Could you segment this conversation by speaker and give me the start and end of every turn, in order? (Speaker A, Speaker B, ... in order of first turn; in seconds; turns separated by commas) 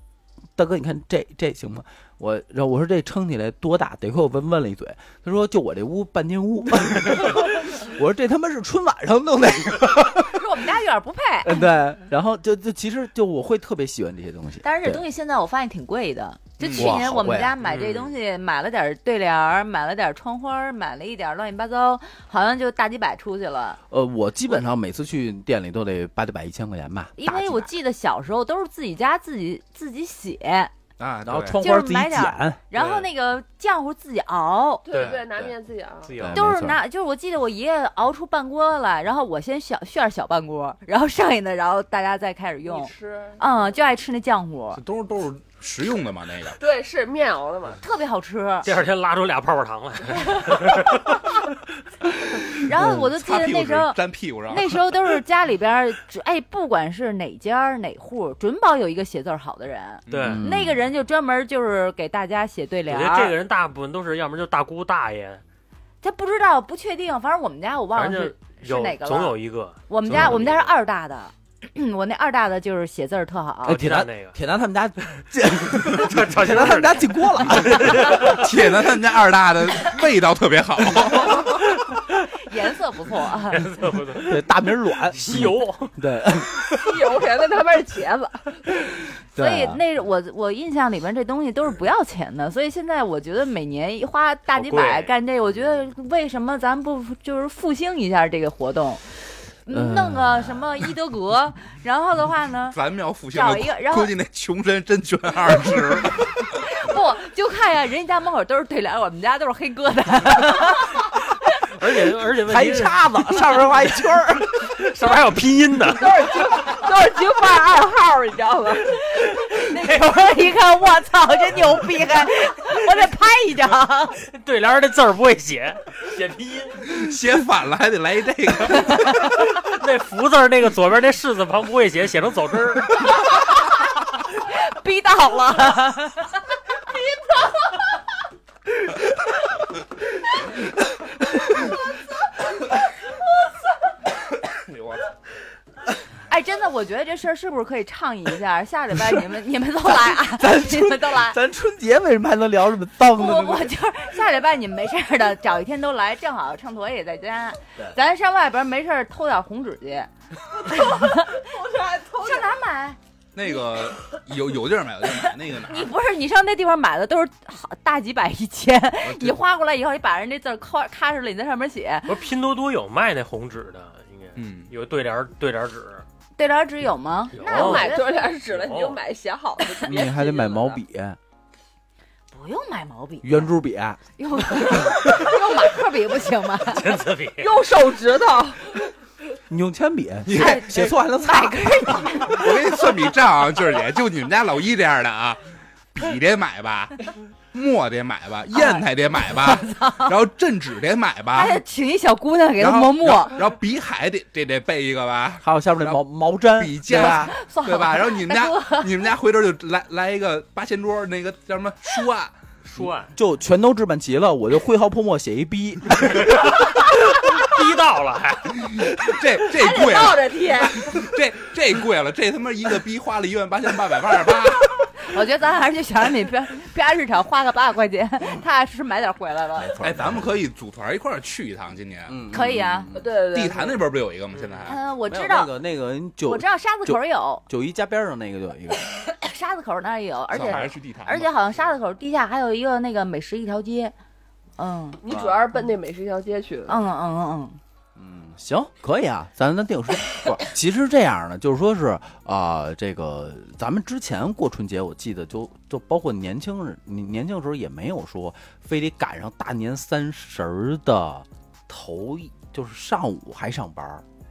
Speaker A: 0.6-10.4, Speaker B: 10.3-11.7, Speaker A: 11.4-15.0, Speaker B: 14.6-23.8, Speaker C: 16.6-17.0, Speaker A: 16.8-17.6, Speaker D: 17.6-18.1, Speaker A: 23.9-27.7, Speaker B: 27.2-30.7, Speaker C: 31.0-31.6, Speaker A: 31.2-32.6, Speaker B: 31.4-34.8, Speaker D: 32.7-33.1, Speaker E: 34.8-36.3, Speaker D: 34.9-35.5, Speaker D: 36.0-36.4, Speaker A: 36.1-36.8, Speaker B: 36.3-44.8, Speaker E: 42.6-43.8, Speaker C: 44.7-46.6, Speaker E: 46.6-47.8, Speaker B: 47.8-48.7, Speaker D: 48.6-51.2, Speaker C: 52.5-55.2, Speaker B: 52.6-63.4, Speaker A: 52.8-53.1, Speaker C: 60.1-60.4, Speaker D: 60.1-60.4, Speaker A: 60.2-60.8, Speaker D: 62.9-65.4, Speaker B: 66.0-69.3, Speaker D: 67.9-70.7, Speaker B: 69.9-73.8, Speaker A: 70.1-70.4, Speaker A: 73.6-78.3, Speaker D: 73.7-74.4, Speaker D: 75.8-78.4, Speaker C: 78.2-81.6, Speaker B: 82.4-83.7, Speaker D: 83.5-84.4, Speaker A: 84.1-87.1, Speaker D: 85.1-85.9, Speaker E: 86.7-88.7, Speaker A: 89.3-89.8, Speaker B: 89.3-99.0, Speaker D: 94.5-95.1, Speaker B: 99.6-102.8, Speaker A: 99.7-100.6, Speaker C: 102.7-106.5, Speaker B: 103.3-104.1, Speaker B: 106.6-111.1, Speaker D: 111.7-113.7, Speaker A: 112.5-114.5, Speaker D: 114.5-116.2, Speaker E: 116.0-119.0, Speaker B: 119.2-124.2, Speaker D: 124.3-126.8, Speaker C: 126.8-129.2, Speaker B: 128.9-129.1, Speaker D: 129.5-133.0, Speaker B: 134.4-136.3, Speaker C: 144.5-145.1, Speaker B: 146.3-151.4, Speaker A: 149.8-153.7, Speaker B: 153.1-160.1, Speaker B: 160.7-161.5, Speaker E: 160.8-162.5, Speaker B: 162.2-163.0, Speaker C: 163.3-165.9, Speaker B: 165.6-172.2, Speaker C: 169.0-169.4, Speaker D: 172.1-176.0, Speaker C: 174.3-174.7, Speaker B: 176.4-178.1, Speaker D: 177.3-179.0, Speaker E: 177.4-180.8, Speaker A: 179.8-181.2, Speaker B: 182.3-183.5, Speaker A: 183.2-184.0, Speaker B: 184.2-187.0, Speaker A: 184.5-185.1, Speaker D: 186.7-187.5, Speaker E: 187.4-188.9, Speaker A: 189.5-192.2, Speaker C: 190.3-190.9, Speaker B: 190.3-192.8, Speaker C: 192.2-195.4, Speaker C: 195.9-201.6, Speaker B: 198.5-198.8, Speaker B: 199.4-200.1, Speaker B: 201.3-203.4, Speaker C: 202.6-212.3, Speaker A: 205.4-207.3, Speaker B: 206.9-209.0, Speaker D: 212.6-213.1, Speaker A: 213.1-216.5, Speaker D: 216.2-218.7, Speaker C: 218.6-224.8, Speaker E: 219.5-221.1, Speaker B: 225.0-229.7, Speaker A: 229.6-230.3, Speaker C: 229.8-232.1, Speaker A: 232.1-233.1, Speaker B: 232.3-232.9, Speaker E: 232.9-233.8, Speaker C: 233.2-234.8, Speaker D: 234.3-234.8, Speaker B: 234.7-235.5, Speaker A: 235.1-238.8, Speaker B: 236.2-237.4, Speaker B: 238.9-243.9, Speaker C: 240.3-241.3, Speaker B: 244.6-245.0, Speaker E: 245.0-246.8, Speaker A: 245.1-245.4, Speaker B: 246.7-247.6, Speaker A: 247.9-264.0